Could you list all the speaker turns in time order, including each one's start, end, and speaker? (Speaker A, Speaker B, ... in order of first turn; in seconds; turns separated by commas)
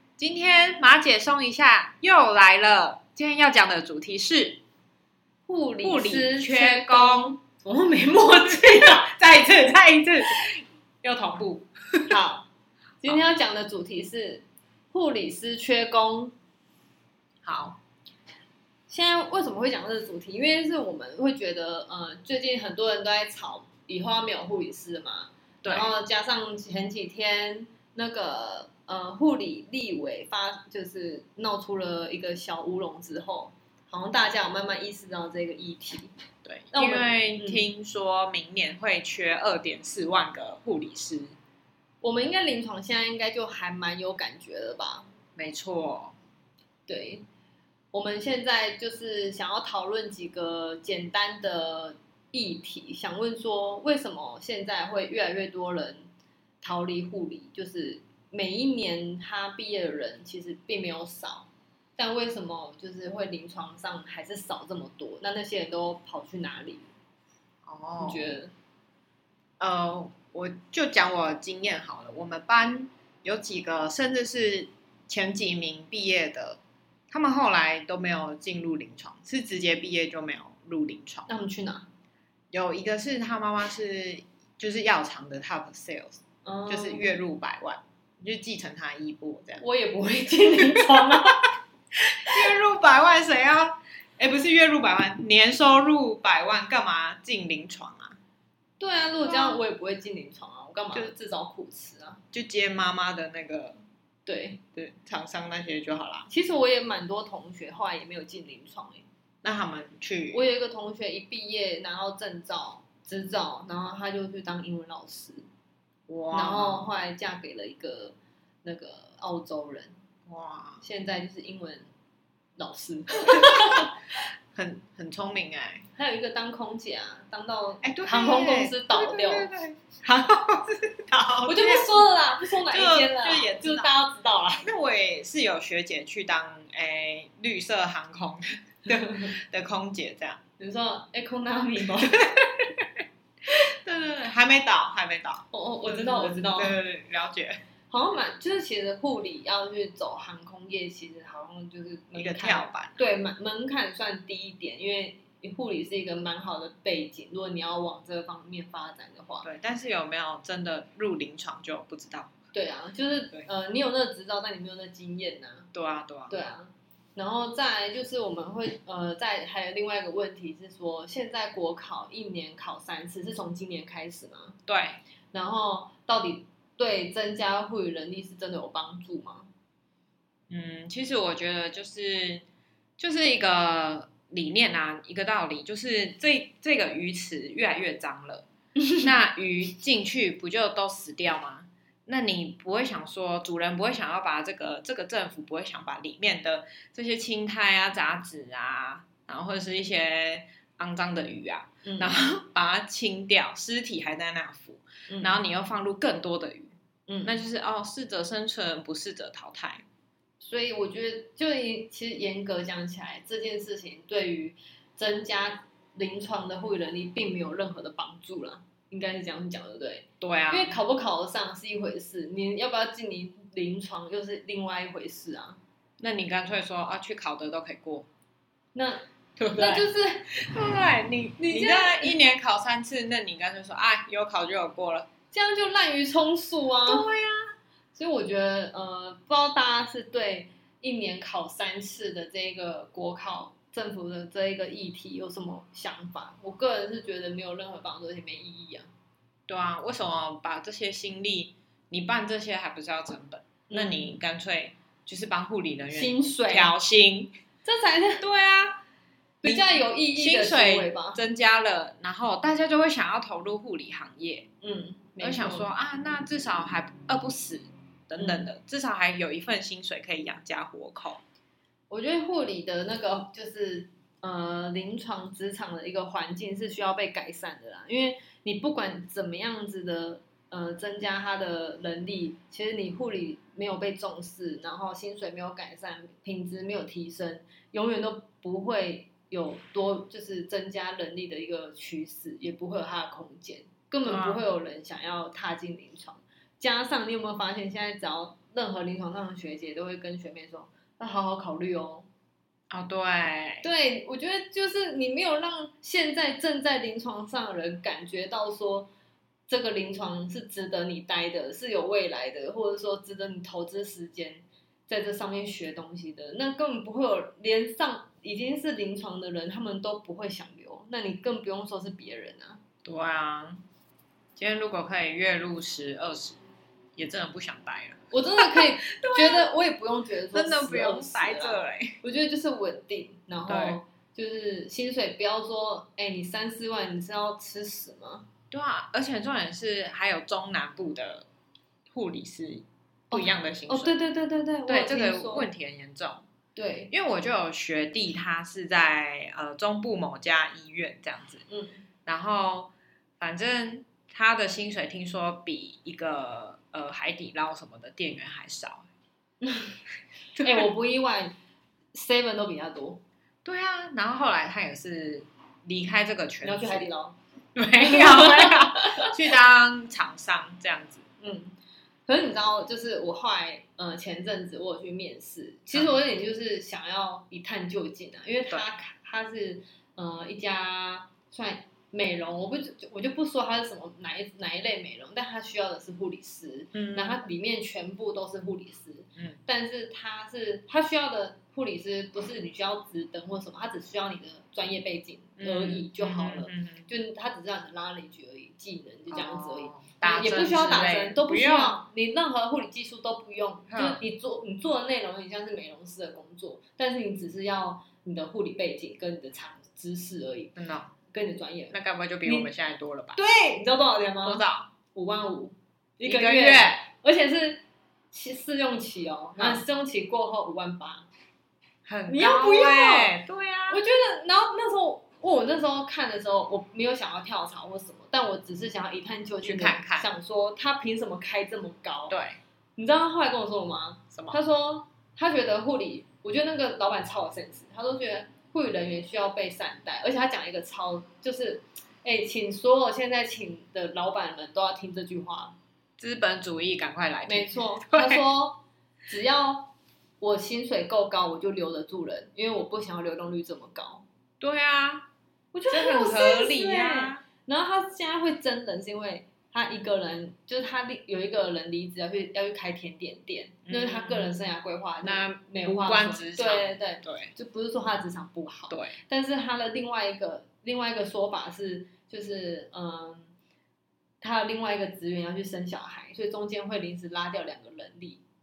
Speaker A: 0.2-4.6, Speaker B: 5.5-9.1, Speaker A: 5.8-7.4, Speaker A: 8.5-12.1, Speaker B: 12.1-12.5, Speaker B: 13.0-16.3, Speaker A: 17.4-17.8, Speaker B: 18.9-36.1, Speaker A: 25.6-25.9, Speaker A: 36.5-41.4, Speaker B: 36.7-37.7, Speaker B: 42.0-45.1, Speaker A: 45.4-46.2, Speaker B: 46.9-47.2, Speaker B: 47.9-56.1, Speaker B: 56.6-66.9, Speaker A: 67.7-68.4, Speaker B: 68.0-68.5, Speaker A: 69.6-81.3, Speaker B: 81.3-81.9, Speaker A: 82.5-89.7, Speaker B: 86.5-87.1, Speaker B: 89.6-91.5, Speaker A: 90.8-91.2, Speaker A: 92.3-98.2, Speaker B: 98.8-102.2, Speaker A: 99.2-99.6, Speaker A: 102.3-103.8, Speaker B: 104.3-104.6, Speaker A: 104.8-106.3, Speaker B: 106.3-109.1, Speaker A: 109.4-110.4, Speaker B: 110.3-115.5, Speaker A: 116.1-116.9, Speaker B: 116.3-120.0, Speaker A: 120.3-120.8, Speaker B: 120.8-121.9, Speaker B: 122.6-123.9, Speaker A: 123.3-123.8, Speaker A: 124.5-125.8, Speaker B: 126.0-129.5, Speaker A: 127.8-132.0, Speaker B: 131.5-134.7, Speaker A: 132.7-133.9, Speaker A: 134.6-140.4, Speaker B: 138.9-139.3, Speaker B: 140.6-142.2, Speaker A: 142.3-147.6, Speaker B: 145.5-146.8, Speaker B: 147.9-159.5, Speaker A: 152.1-153.0, Speaker A: 159.4-162.3, Speaker B: 162.5-165.7, Speaker A: 165.7-166.4, Speaker B: 166.3-174.6, Speaker A: 174.7-175.0, Speaker B: 175.3-179.5, Speaker A: 180.5-182.4, Speaker A: 183.0-188.5, Speaker B: 188.8-189.1, Speaker A: 189.0-209.8, Speaker B: 201.8-202.2, Speaker B: 205.1-205.4, Speaker B: 207.1-207.3, Speaker B: 210.4-225.6, Speaker A: 220.2-220.8, Speaker A: 226.0-228.1, Speaker B: 228.8-230.4, Speaker A: 229.4-235.1, Speaker B: 231.4-232.2, Speaker B: 235.3-237.1, Speaker A: 236.9-237.5, Speaker B: 237.9-248.9, Speaker A: 249.5-257.3, Speaker B: 253.7-254.2, Speaker B: 255.9-256.7, Speaker B: 257.6-258.2, Speaker A: 258.2-258.8, Speaker B: 259.4-261.2, Speaker A: 259.4-264.5, Speaker B: 264.6-265.7, Speaker A: 265.2-271.2, Speaker B: 268.2-268.5, Speaker B: 271.9-302.1, Speaker A: 294.1-294.4, Speaker A: 302.7-303.7, Speaker B: 303.6-308.9, Speaker B: 309.5-322.6, Speaker A: 322.8-323.6, Speaker A: 324.4-326.4, Speaker A: 327.0-329.5, Speaker B: 328.1-338.3, Speaker A: 330.3-332.0, Speaker A: 333.5-333.8, Speaker A: 338.5-341.3, Speaker A: 341.9-343.9, Speaker B: 343.1-345.5, Speaker A: 344.7-346.3, Speaker B: 346.6-346.9, Speaker A: 346.9-351.4, Speaker B: 351.5-351.8, Speaker A: 352.1-358.9, Speaker B: 359.4-359.8, Speaker A: 360.4-360.7, Speaker B: 360.4-361.4, Speaker B: 361.9-363.0, Speaker A: 363.4-366.9, Speaker B: 366.4-367.2, Speaker A: 367.6-371.1, Speaker B: 367.8-369.2, Speaker B: 371.2-371.6, Speaker B: 372.1-410.5, Speaker A: 386.7-387.2, Speaker A: 395.4-396.9, Speaker A: 399.1-401.8, Speaker A: 403.7-404.0, Speaker A: 410.6-410.9, Speaker B: 411.1-412.5, Speaker A: 411.7-413.2, Speaker B: 413.2-414.4, Speaker A: 414.2-414.7, Speaker B: 414.9-421.1, Speaker A: 416.0-416.8, Speaker A: 419.4-419.6, Speaker A: 421.9-423.8, Speaker B: 422.1-423.1, Speaker B: 423.7-432.2, Speaker A: 429.4-430.1, Speaker A: 432.1-432.4, Speaker B: 432.8-445.6, Speaker A: 446.0-448.2, Speaker B: 447.3-454.1, Speaker A: 454.4-455.1, Speaker B: 455.5-473.3, Speaker A: 455.7-457.2, Speaker A: 463.6-464.4, Speaker A: 465.0-467.3, Speaker A: 468.7-468.9, Speaker B: 474.2-478.2